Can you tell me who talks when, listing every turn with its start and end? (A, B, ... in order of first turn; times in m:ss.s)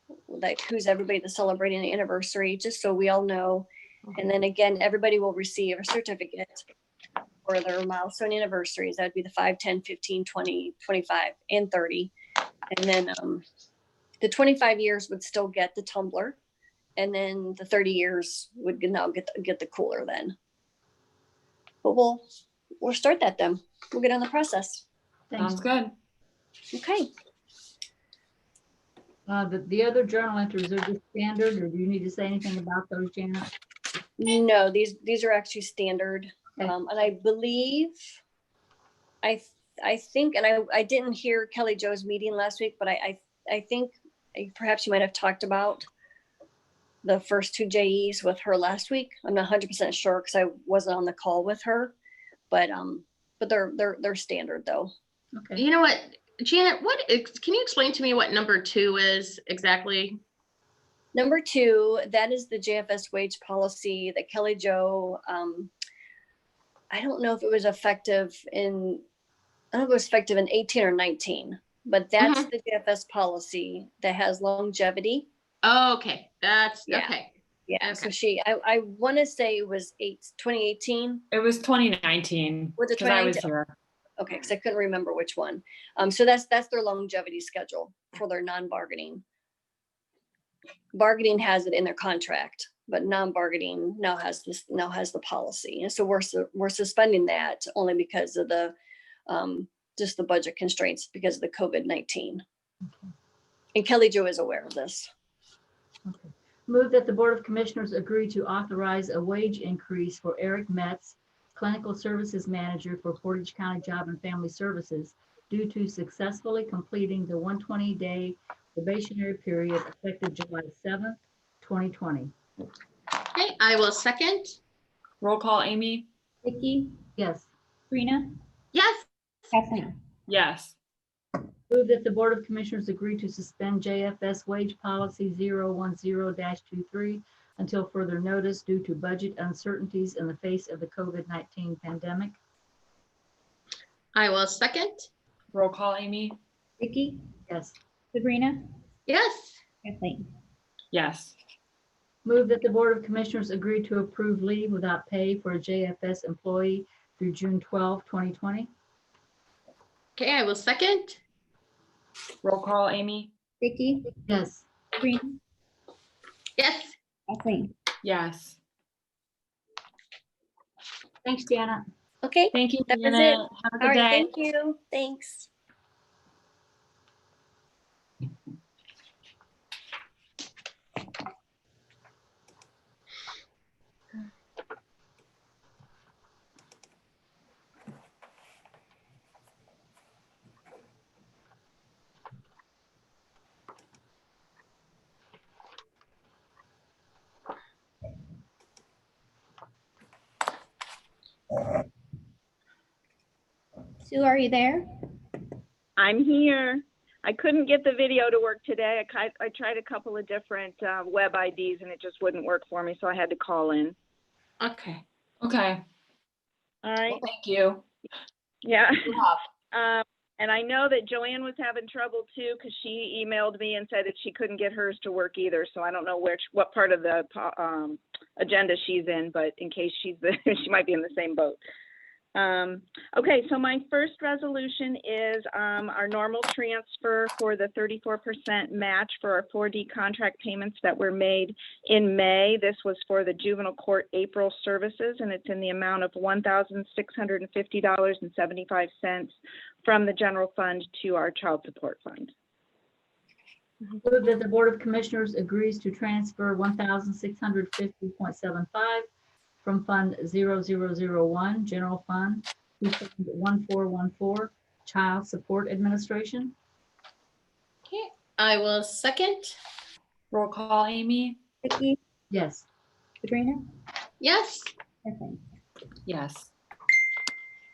0:00.3-0:06.6 A
0:07.5-0:12.1 A
0:12.7-0:13.4 A
0:14.2-0:16.4 A
0:17.0-0:20.4 A
0:21.8-0:22.3 A
0:22.8-0:24.8 A
0:25.3-0:25.6 B
0:25.4-0:26.0 C
0:26.7-0:27.1 A
0:29.3-0:33.5 B
0:34.2-0:38.0 A
0:39.2-0:45.8 A
0:47.0-0:52.0 A
0:52.5-0:54.9 A
0:55.4-0:55.6 B
0:55.6-1:00.2 D
1:01.2-1:05.7 A
1:06.9-1:09.0 A
1:09.7-1:15.3 A
1:12.2-1:12.5 D
1:15.6-1:18.1 D
1:16.9-1:17.1 A
1:17.7-1:21.2 A
1:21.3-1:23.7 C
1:22.8-1:23.5 A
1:24.2-1:29.2 A
1:31.0-1:38.8 A
1:39.3-1:42.4 A
1:42.8-1:43.1 B
1:43.8-1:45.1 A
1:46.1-2:02.3 B
2:03.3-2:04.6 D
2:05.2-2:06.1 C
2:06.4-2:07.0 E
2:07.2-2:07.5 B
2:07.9-2:08.3 E
2:08.7-2:09.1 D
2:09.5-2:09.9 E
2:10.3-2:10.8 C
2:11.7-2:22.4 B
2:24.1-2:25.1 D
2:25.5-2:26.4 C
2:26.8-2:27.3 E
2:27.5-2:27.8 B
2:28.1-2:28.7 E
2:29.1-2:29.6 D
2:29.8-2:30.3 E
2:30.9-2:31.4 C
2:32.2-2:38.7 B
2:40.2-2:41.2 D
2:42.4-2:43.3 C
2:43.6-2:44.1 E
2:44.2-2:44.6 B
2:45.0-2:45.4 E
2:46.6-2:47.0 D
2:47.3-2:47.7 E
2:48.0-2:48.6 C
2:51.2-2:51.8 B
2:52.2-2:55.5 A
2:52.5-2:54.3 C
3:24.1-3:24.9 E
3:26.0-3:34.0 F
3:34.6-3:35.0 D
3:35.4-3:35.8 C
3:36.8-3:37.2 F
3:37.1-3:37.8 C
3:38.6-3:39.2 F
3:39.7-3:51.6 F
3:52.4-4:12.3 F
4:14.0-4:19.1 B
4:19.6-4:26.5 B
4:27.9-4:29.6 D
4:30.3-4:31.4 C
4:31.6-4:32.0 E
4:32.3-4:32.7 B
4:33.2-4:33.7 E
4:34.2-4:34.7 D
4:35.0-4:35.4 E
4:36.1-4:36.5 C